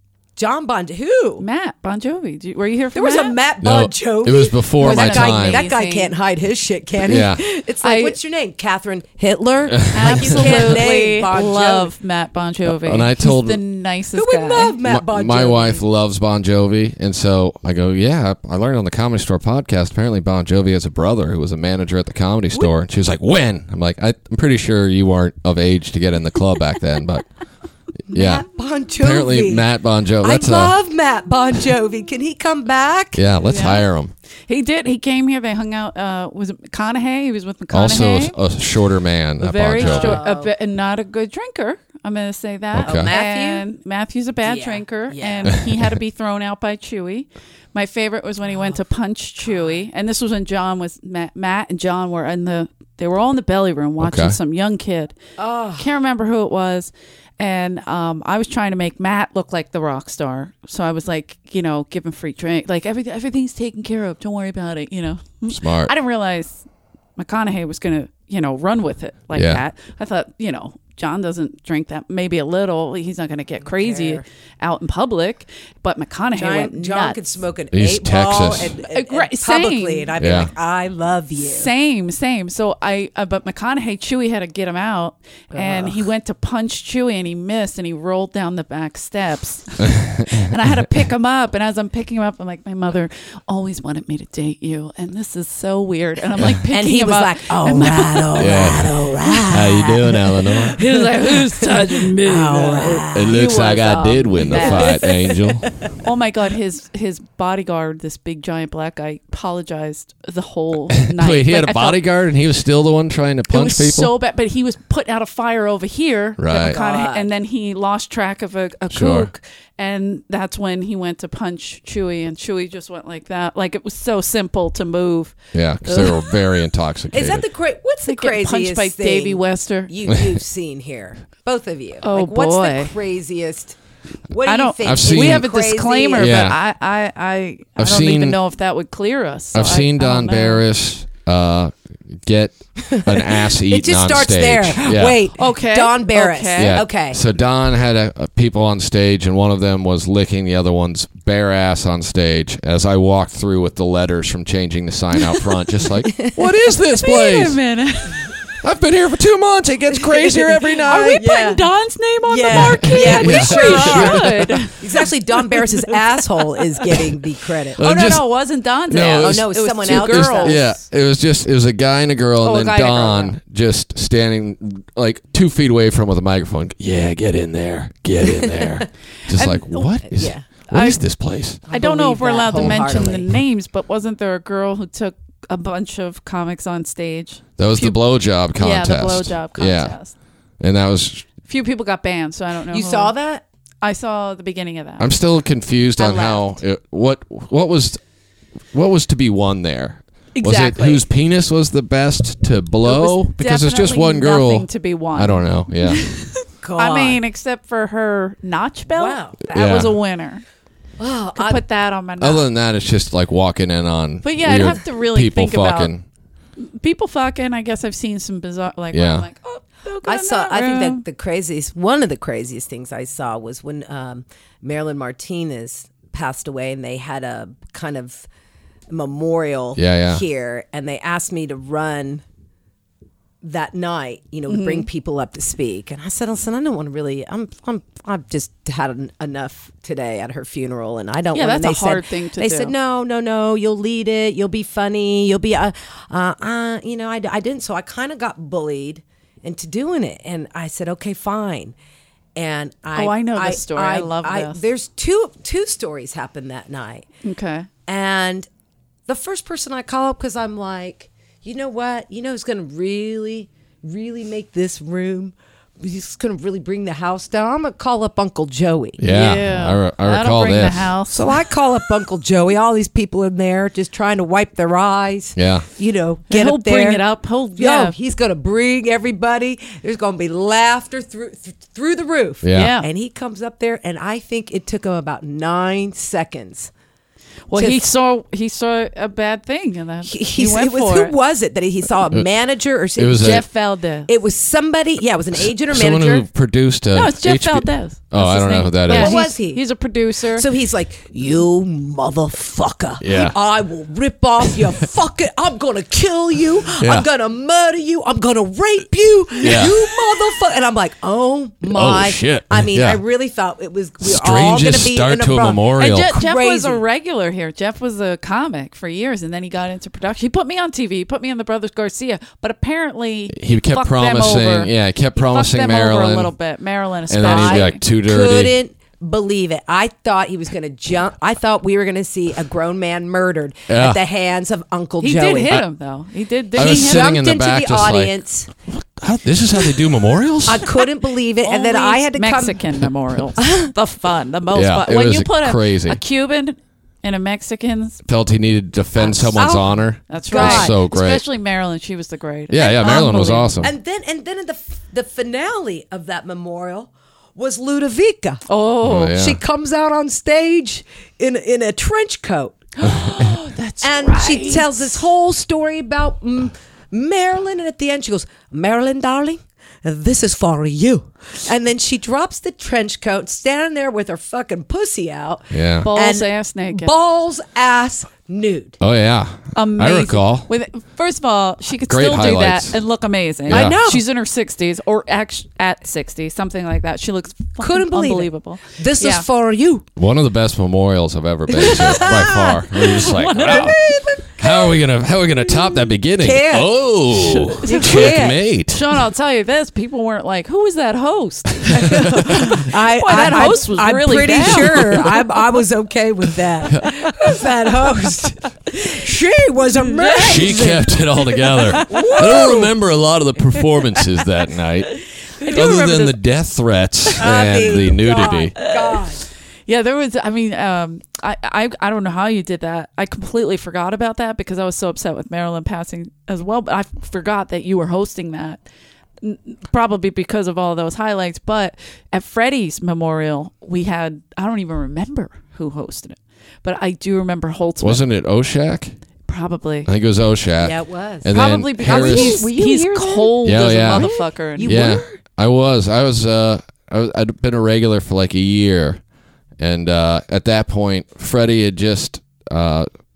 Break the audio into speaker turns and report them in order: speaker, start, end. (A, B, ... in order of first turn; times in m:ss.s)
0:00.4-0:01.4 A
0:01.4-0:03.4 B
0:02.9-0:11.9 A
0:03.6-0:05.7 C
0:04.8-0:06.1 B
0:07.0-0:07.4 C
0:07.8-0:08.2 B
0:09.9-0:10.9 C
0:09.9-0:14.8 B
0:12.6-0:13.6 C
0:14.1-0:15.8 A
0:14.8-0:27.3 C
0:28.1-0:28.5 C
0:28.1-0:29.6 A
0:29.0-0:30.8 C
0:30.2-0:33.2 A
0:33.1-0:34.1 C
0:33.4-0:33.8 B
0:34.5-0:38.4 B
0:37.7-0:40.2 C
0:39.4-0:55.2 B
0:39.8-0:40.5 A
0:42.7-0:43.1 C
0:42.8-0:43.6 A
0:44.4-0:45.6 A
0:48.5-0:48.8 A
0:54.0-0:54.4 C
0:55.4-0:55.9 A
0:55.8-1:06.6 B
1:05.5-1:05.9 C
1:07.2-1:17.2 B
1:09.3-1:09.6 C
1:13.6-1:14.2 A
1:16.4-1:21.7 A
1:17.7-1:18.8 C
1:18.8-1:20.1 B
1:20.2-1:20.5 C
1:21.4-1:38.7 B
1:25.5-1:26.0 A
1:36.7-1:43.4 A
1:38.4-1:40.8 C
1:40.8-1:45.1 B
1:43.1-1:45.7 C
1:44.4-1:45.1 A
1:46.0-1:52.0 B
1:51.0-1:54.1 C
1:53.5-2:06.4 B
1:56.4-1:56.8 C
1:56.5-1:57.3 A
1:58.9-1:59.3 C
2:05.5-2:07.5 C
2:07.1-2:13.8 A
2:08.0-2:10.0 B
2:12.0-2:13.0 B
2:14.3-2:16.3 A
2:14.4-2:20.6 B
2:14.8-2:15.5 C
2:16.2-2:16.6 C
2:17.8-2:18.4 C
2:19.5-2:25.2 C
2:22.9-2:27.2 A
2:25.3-2:26.8 B
2:26.6-2:37.6 C
2:36.9-2:38.3 B
2:38.6-2:41.2 C
2:40.1-2:41.6 A
2:40.9-2:47.0 B
2:42.3-2:47.8 A
2:42.5-2:44.6 C
2:47.8-2:48.2 C
2:47.8-2:50.7 B
2:48.9-3:01.6 C
2:48.9-2:50.8 A
2:52.4-2:53.4 B
2:58.3-2:58.8 A
2:59.3-3:00.1 B
3:00.1-3:00.5 A
3:00.7-3:01.0 B
3:01.7-3:03.4 A
3:01.7-3:08.0 B
3:02.5-3:03.3 C
3:07.6-3:10.0 C
3:08.6-3:10.1 B
3:10.6-3:11.3 C
3:11.4-3:13.1 B
3:12.7-3:13.4 A
3:13.8-3:15.1 B
3:15.0-3:18.0 C
3:16.0-3:16.4 B
3:18.7-3:26.0 C
3:20.4-3:21.0 B
3:22.8-3:30.4 B
3:26.6-3:27.2 A
3:28.9-3:29.7 A
3:29.5-3:29.9 C
3:31.0-3:31.6 A
3:31.4-3:32.5 B
3:32.2-3:36.0 C
3:34.2-3:35.9 B
3:36.6-3:41.0 B
3:38.9-3:39.3 C
3:40.0-3:48.3 A
3:48.9-3:52.2 A
3:49.8-3:50.2 C
3:53.4-4:11.8 A
3:54.5-3:54.9 B
4:01.3-4:02.7 B
4:12.4-4:17.0 A
4:13.0-4:14.6 B
4:17.2-4:17.7 B
4:17.9-4:18.5 A
4:19.1-4:29.0 A
4:29.0-4:31.0 C
4:29.0-4:31.3 B
4:31.1-4:37.0 A
4:35.4-4:35.6 C
4:36.3-4:38.0 B
4:37.6-4:46.7 A
4:42.4-4:42.8 C
4:42.5-4:42.9 B
4:47.5-4:51.1 B
4:47.6-4:47.8 A
4:50.0-4:53.5 A
4:53.0-4:53.4 C
4:53.1-4:54.1 B
4:54.1-4:56.3 A
4:55.4-4:59.2 C
4:56.9-5:00.5 B
4:58.9-4:59.7 A
5:00.4-5:16.8 A
5:03.0-5:03.4 C
5:06.8-5:07.1 C
5:09.4-5:10.1 B
5:09.4-5:09.8 C
5:11.6-5:13.0 C
5:14.0-5:16.2 C
5:15.8-5:27.8 B
5:23.3-5:26.3 C
5:27.1-5:28.6 C
5:27.2-5:35.6 A
5:33.7-5:34.0 C
5:35.0-5:37.2 B
5:36.5-5:38.1 C
5:36.6-5:38.5 A
5:38.7-5:40.7 C
5:40.5-5:42.6 A
5:41.4-5:48.0 B
5:43.4-5:43.7 A
5:44.5-5:46.0 C
5:48.1-5:51.2 C
5:49.0-5:49.3 B
5:49.2-5:49.7 A
5:50.1-5:53.6 B
5:50.3-5:50.8 A
5:52.5-5:53.7 C
5:52.8-5:53.1 A
5:53.6-6:02.7 A
5:58.5-5:59.2 B
5:58.8-5:59.4 C
6:02.8-6:04.7 B
6:03.8-6:18.8 A
6:15.5-6:15.9 C
6:15.8-6:16.9 B
6:18.8-6:20.5 C
6:19.6-6:29.3 B
6:21.9-6:22.8 C
6:23.5-6:23.8 C
6:23.5-6:24.0 A
6:27.6-6:29.9 A
6:30.0-6:33.8 C
6:31.6-6:33.8 B
6:31.6-6:32.4 A
6:33.4-6:34.7 A
6:34.4-6:39.0 C
6:36.2-6:36.7 A
6:37.2-6:45.2 B
6:37.6-6:38.4 A
6:41.7-6:52.7 A
6:44.7-6:45.0 C
6:49.8-6:52.6 B
6:50.2-6:58.6 C
6:54.9-6:56.2 B
6:57.1-6:59.0 B
6:57.2-6:59.2 A
6:59.6-7:08.6 B
7:09.2-7:18.0 B
7:17.8-7:18.9 C
7:19.3-7:19.9 B
7:19.9-7:22.4 C
7:20.6-7:25.2 A
7:21.3-7:25.0 B
7:23.4-7:29.0 C
7:29.6-7:32.9 C